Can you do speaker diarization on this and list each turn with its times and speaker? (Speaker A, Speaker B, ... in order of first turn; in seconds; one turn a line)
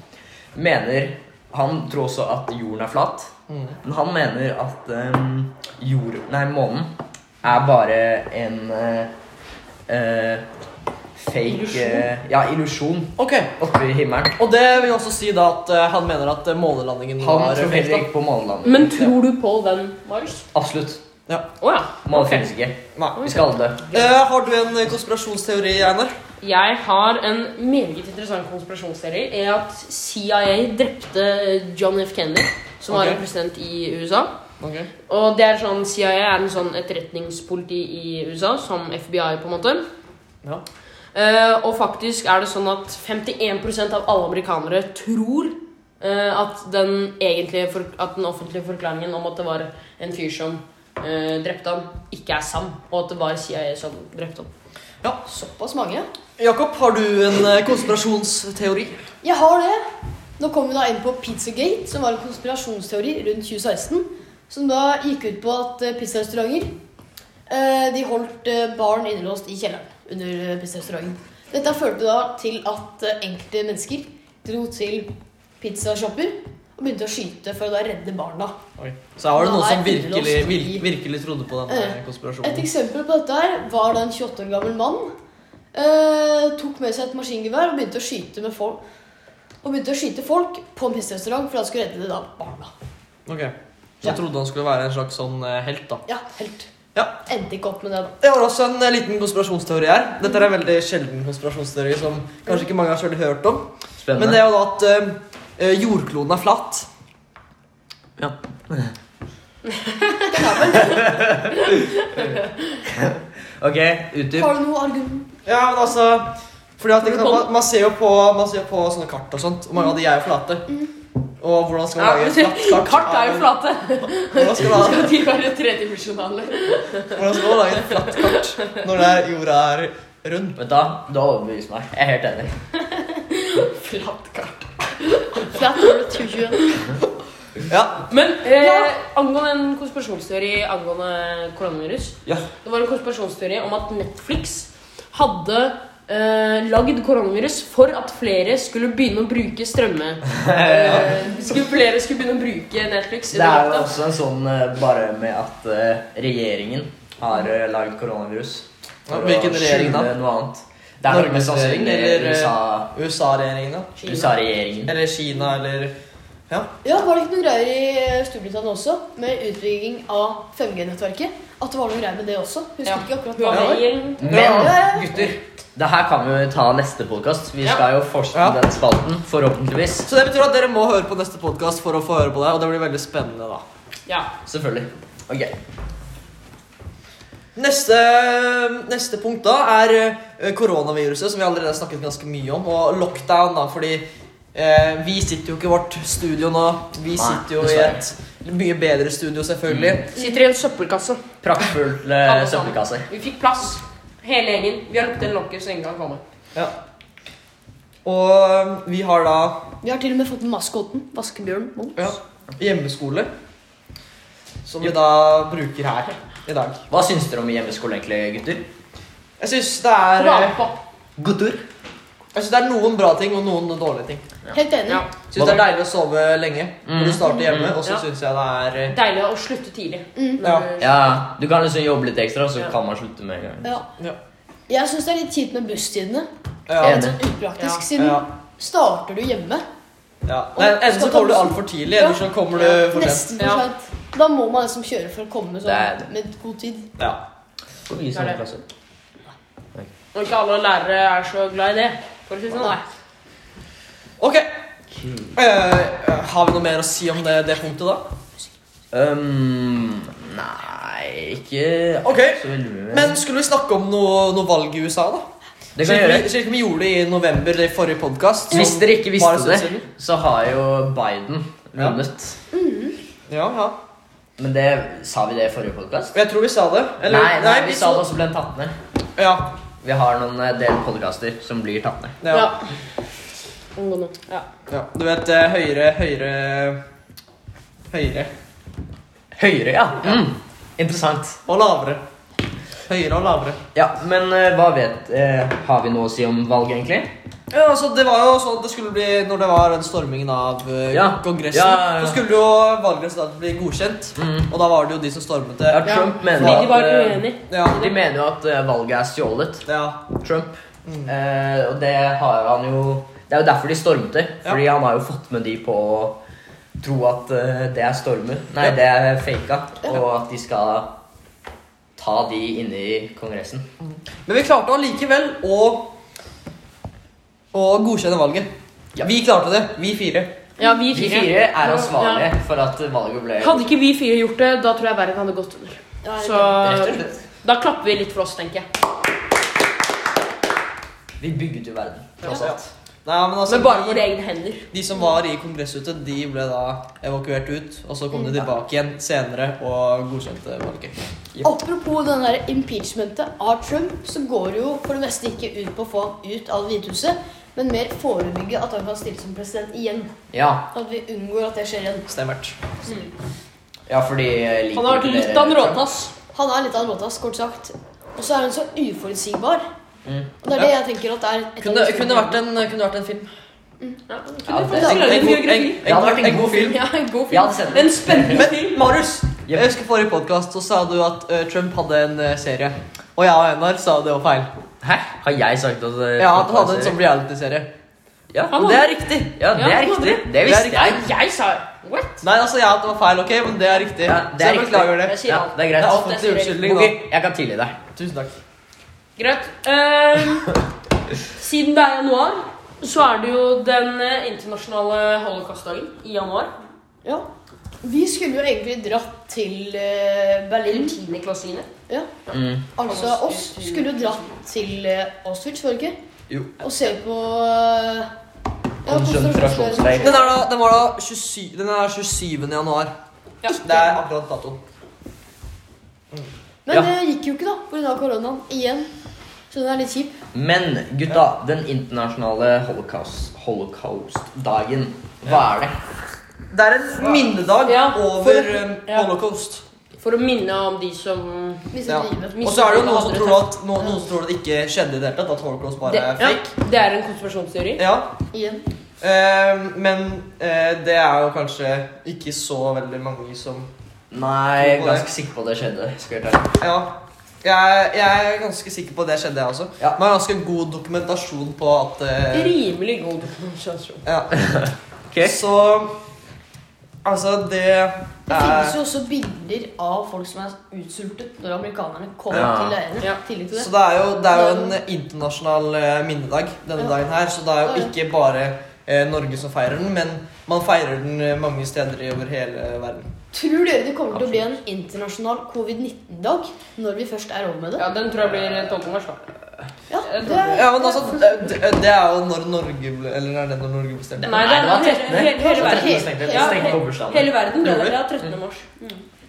Speaker A: 0.5-3.3
Speaker B: 3.5-3.8
Speaker A: 3.8-6.9
Speaker A: 7.4-9.1
Speaker A: 9.9-10.4
Speaker A: 11.2-14.4
Speaker C: 11.5-12.1
Speaker B: 13.2-13.5
Speaker B: 14.3-18.1
Speaker A: 17.2-18.9
Speaker C: 18.6-20.4
Speaker A: 20.5-21.0
Speaker C: 21.6-22.5
Speaker A: 22.0-23.9
Speaker B: 22.9-23.2
Speaker C: 23.2-24.1
Speaker B: 23.9-26.1
Speaker C: 26.4-34.3
Speaker B: 32.9-33.2
Speaker B: 34.6-34.9
Speaker C: 35.1-39.8
Speaker C: 41.1-54.5
Speaker D: 55.2-56.0
Speaker B: 56.4-59.0
Speaker D: 59.2-59.8
Speaker D: 60.4-66.7
Speaker D: 67.5-75.1
Speaker D: 75.6-78.5
Speaker B: 78.8-82.7
Speaker D: 79.3-80.9
Speaker D: 81.7-85.1
Speaker D: 85.7-88.8
Speaker D: 89.6-92.7
Speaker B: 93.3-96.0
Speaker D: 96.1-96.7
Speaker D: 97.2-98.1
Speaker B: 98.2-106.9
Speaker A: 104.0-104.4
Speaker A: 108.2-108.9
Speaker C: 109.7-110.4
Speaker D: 110.3-111.3
Speaker A: 110.8-112.0
Speaker A: 112.9-114.5
Speaker D: 114.3-115.3
Speaker B: 115.4-120.8
Speaker C: 117.0-117.5
Speaker B: 121.4-123.5
Speaker C: 122.0-128.7
Speaker B: 124.3-125.2
Speaker B: 127.1-130.6
Speaker A: 130.6-132.5
Speaker C: 132.9-135.9
Speaker D: 135.5-136.6
Speaker B: 137.7-138.0
Speaker C: 138.1-153.9
Speaker D: 138.4-138.9
Speaker A: 150.3-151.2
Speaker A: 153.3-162.9
Speaker B: 159.1-160.1
Speaker B: 161.1-164.0
Speaker C: 164.0-164.3
Speaker A: 164.1-164.9
Speaker B: 164.8-165.9
Speaker D: 166.8-175.3
Speaker C: 172.8-174.3
Speaker B: 173.5-175.3
Speaker A: 174.2-180.1
Speaker B: 178.3-178.6
Speaker B: 180.0-183.6
Speaker A: 184.4-185.5
Speaker B: 187.6-200.1
Speaker A: 197.1-198.0
Speaker A: 199.7-200.0
Speaker C: 200.1-201.2
Speaker A: 201.4-203.1
Speaker C: 202.2-206.2
Speaker B: 208.0-209.6
Speaker D: 209.8-212.2
Speaker B: 212.0-213.3
Speaker B: 214.7-216.8
Speaker A: 216.9-218.7
Speaker B: 219.4-220.6
Speaker C: 220.1-220.8
Speaker A: 221.2-221.6
Speaker B: 222.3-224.2
Speaker D: 224.5-225.0
Speaker C: 224.9-225.1
Speaker B: 225.3-228.9
Speaker A: 225.3-225.7
Speaker A: 226.8-227.8
Speaker C: 228.9-231.2
Speaker D: 230.2-230.4
Speaker B: 230.4-230.7
Speaker A: 230.8-233.8
Speaker D: 233.6-233.9
Speaker D: 234.7-239.6
Speaker B: 236.7-237.0
Speaker A: 236.8-237.2
Speaker C: 237.6-237.8
Speaker B: 237.9-238.2
Speaker B: 240.2-243.3
Speaker D: 240.6-246.9
Speaker C: 243.4-243.7
Speaker A: 245.6-246.1
Speaker A: 247.9-248.6
Speaker C: 248.1-248.4
Speaker C: 250.1-252.8
Speaker D: 252.6-252.8
Speaker B: 254.2-254.5
Speaker A: 254.9-255.4
Speaker B: 255.3-258.1
Speaker A: 258.9-263.2
Speaker B: 262.0-265.2
Speaker A: 265.8-266.3
Speaker B: 265.8-269.9
Speaker A: 268.5-272.4
Speaker D: 272.5-273.0
Speaker B: 273.3-273.8
Speaker A: 274.4-276.1
Speaker B: 276.1-278.1
Speaker A: 277.1-278.8
Speaker B: 279.2-279.5
Speaker A: 279.8-282.2
Speaker B: 282.2-282.5
Speaker C: 282.3-282.7
Speaker C: 283.7-284.5
Speaker B: 284.7-286.8
Speaker B: 287.9-288.3
Speaker A: 289.4-291.4
Speaker B: 291.4-292.0
Speaker B: 292.9-293.6
Speaker A: 293.7-297.1
Speaker B: 297.5-306.7
Speaker A: 300.9-302.2
Speaker A: 304.2-304.5
Speaker A: 305.7-309.6
Speaker C: 305.8-307.9
Speaker B: 307.5-307.9
Speaker B: 309.6-310.0
Speaker A: 310.2-316.2
Speaker B: 310.9-311.1
Speaker A: 316.8-320.9
Speaker A: 322.0-323.6
Speaker B: 323.8-325.9
Speaker B: 327.5-328.5
Speaker B: 329.0-330.3
Speaker C: 330.6-332.3
Speaker A: 330.9-333.6
Speaker C: 333.4-338.7
Speaker D: 336.0-336.8
Speaker A: 336.6-337.1
Speaker A: 341.2-342.6
Speaker C: 342.2-342.6
Speaker B: 342.3-344.1
Speaker C: 343.5-344.7
Speaker B: 344.7-350.9
Speaker D: 351.4-360.1
Speaker A: 360.3-360.7
Speaker D: 360.7-362.1
Speaker B: 362.1-362.6
Speaker C: 362.8-363.1
Speaker A: 363.9-365.8
Speaker C: 364.7-366.1
Speaker D: 366.3-369.6
Speaker A: 370.0-370.3
Speaker D: 370.4-372.4
Speaker B: 371.6-373.3
Speaker C: 374.1-375.9
Speaker A: 374.5-374.9
Speaker D: 374.7-375.2
Speaker B: 374.7-376.8
Speaker A: 375.8-376.8
Speaker C: 376.6-378.8
Speaker A: 377.3-378.5
Speaker B: 378.2-384.5
Speaker A: 384.8-387.0
Speaker B: 386.2-387.7
Speaker A: 388.3-388.6
Speaker C: 388.5-388.9
Speaker B: 388.5-389.4
Speaker A: 389.3-391.0
Speaker C: 389.5-392.2
Speaker B: 390.4-391.0
Speaker B: 392.2-395.1
Speaker A: 394.0-397.8
Speaker C: 394.4-396.7
Speaker B: 395.8-397.0
Speaker B: 397.9-398.4
Speaker C: 399.2-400.5
Speaker C: 401.3-406.5
Speaker D: 407.8-411.0
Speaker C: 410.6-411.7
Speaker D: 411.9-412.2
Speaker C: 412.3-414.3
Speaker A: 412.3-412.6
Speaker D: 412.7-415.9
Speaker A: 416.3-416.6
Speaker D: 416.6-418.1
Speaker D: 418.8-420.3
Speaker A: 418.9-420.1
Speaker B: 420.0-422.9
Speaker B: 423.5-424.6
Speaker D: 426.6-428.9
Speaker D: 429.5-430.1
Speaker A: 430.3-435.8
Speaker B: 436.5-439.6
Speaker C: 437.6-439.1
Speaker C: 440.0-441.8
Speaker D: 441.7-442.4
Speaker B: 441.9-446.4
Speaker C: 442.3-443.6
Speaker C: 445.8-447.8
Speaker B: 447.8-448.1
Speaker D: 448.3-448.6
Speaker B: 449.0-453.7
Speaker A: 454.1-456.5
Speaker B: 454.6-455.1
Speaker B: 456.6-462.6
Speaker C: 462.3-464.0
Speaker B: 464.0-464.4
Speaker A: 464.5-465.4
Speaker B: 465.2-465.9
Speaker B: 467.0-468.8
Speaker D: 468.3-473.7
Speaker A: 472.3-472.8
Speaker B: 473.5-483.1
Speaker D: 474.3-474.8
Speaker D: 477.6-477.9
Speaker D: 483.3-487.8
Speaker C: 487.8-489.2
Speaker D: 489.9-491.4
Speaker C: 490.0-490.7
Speaker B: 490.5-494.4
Speaker C: 494.2-499.0
Speaker A: 494.2-497.3
Speaker D: 495.3-496.8
Speaker B: 497.6-498.0